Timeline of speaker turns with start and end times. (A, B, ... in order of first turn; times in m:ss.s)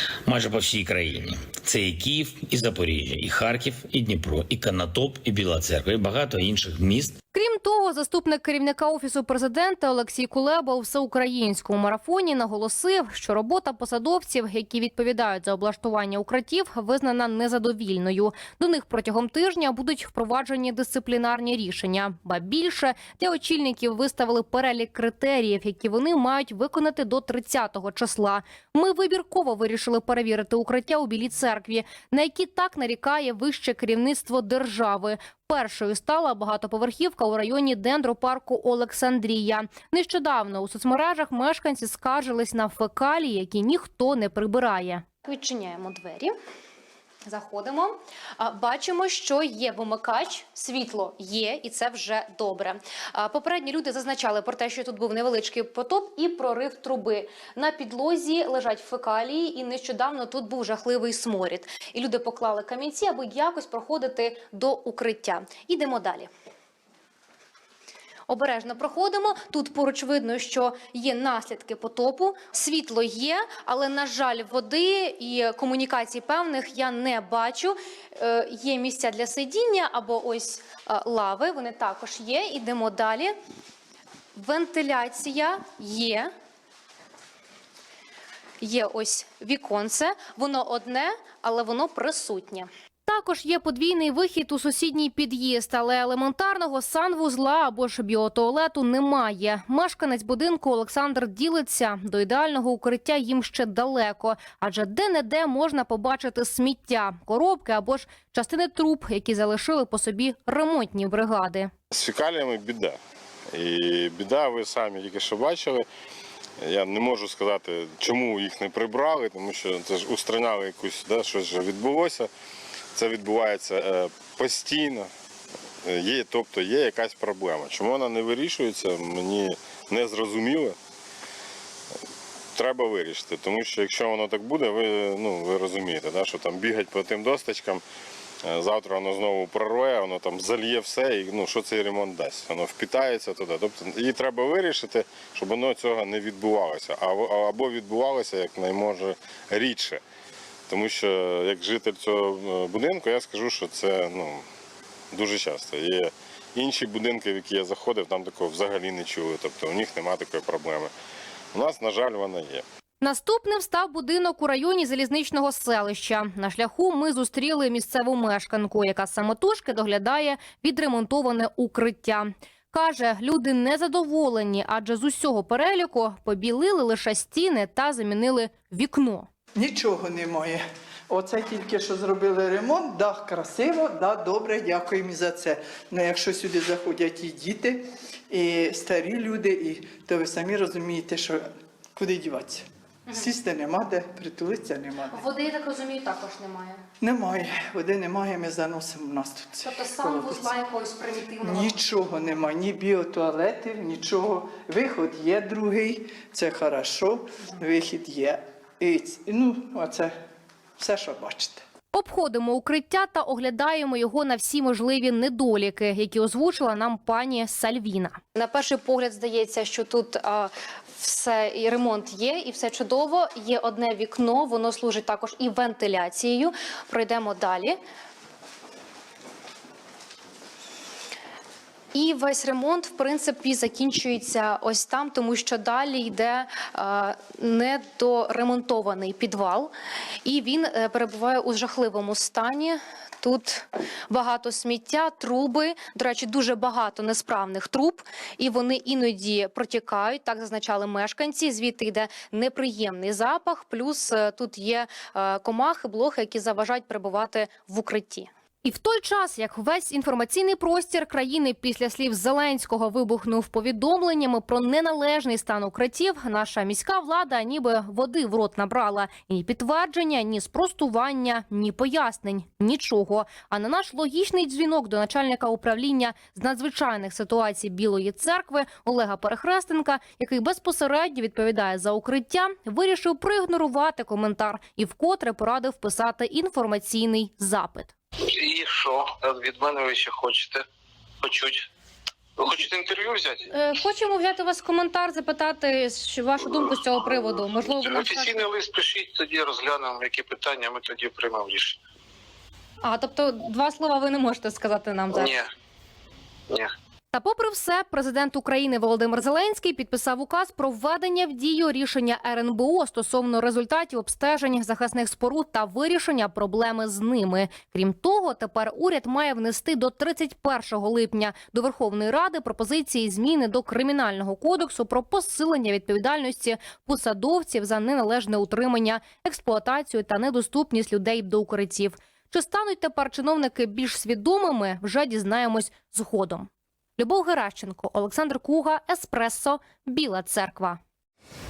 0:00.2-0:07.2 A
0:07.3-0:46.3 B
0:47.2-1:06.3 B
1:08.3-1:23.4 B
1:24.4-1:26.3 B
1:28.6-1:51.7 B
1:51.9-1:53.0 C
1:53.5-1:55.9 C
1:56.6-2:02.3 C
2:02.9-2:05.1 C
2:05.8-2:10.8 C
2:12.6-2:17.8 C
2:18.4-2:30.0 C
2:30.7-2:34.4 C
2:35.1-2:40.9 C
2:41.5-2:42.6 C
2:43.0-2:59.3 B
2:59.6-3:15.2 D
3:15.1-3:16.8 B
3:17.0-3:20.5 D
3:19.6-3:21.8 B
3:21.4-3:30.1 D
3:30.8-3:31.6 D
3:31.9-3:47.8 B
3:51.9-3:59.7 B
4:00.2-4:47.9 B
4:48.2-4:50.6 E
4:51.2-4:51.7 E
4:52.4-4:53.5 E
4:53.5-4:58.5 B
4:57.0-5:01.8 E
5:02.8-5:05.4 B
5:05.1-5:05.5 E
5:07.1-5:40.8 B